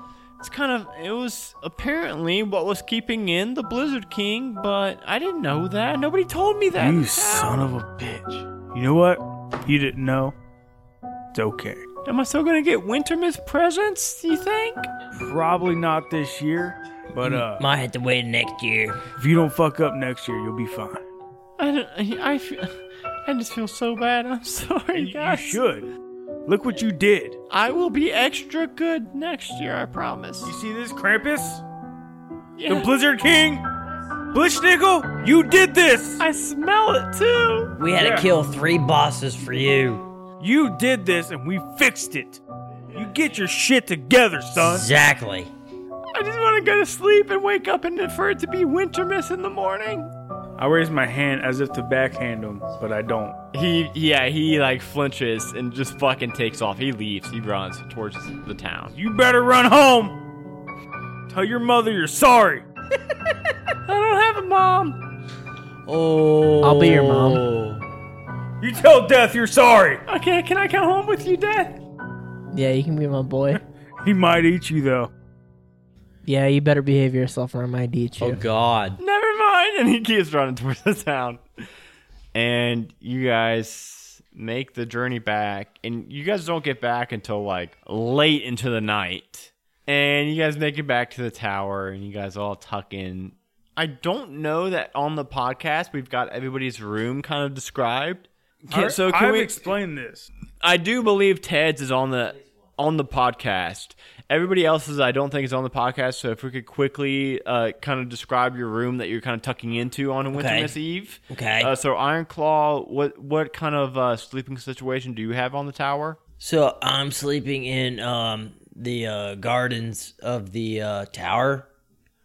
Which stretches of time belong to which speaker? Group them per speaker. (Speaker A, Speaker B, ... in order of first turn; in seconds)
Speaker A: 0.4-7.7, 12.0-14.9, 21.6-25.6, 27.5-30.5, 32.5-32.9, 36.2-37.7, 46.1-50.1, 53.5-58.9, 63.9-65.0, 70.1-71.8, 79.0-81.4, 82.3-99.7, 100.6-116.2
Speaker B: 6.8-10.3, 11.3-11.8, 15.2-17.6, 19.2-21.0, 24.9-25.9, 26.4-27.4, 30.4-31.6, 32.7-33.6, 34.3-36.2, 37.9-38.3, 40.4-44.9, 50.6-53.4, 58.9-60.2, 61.3-62.6, 68.6-70.0, 74.0-75.1, 98.7-100.3
Speaker C: 17.2-19.0, 37.8-40.1, 44.6-45.5, 65.8-67.8, 78.2-79.0, 110.3-110.8, 111.3-111.7, 116.4-121.7
Speaker D: 66.6-67.4, 72.5-73.6, 76.2-78.4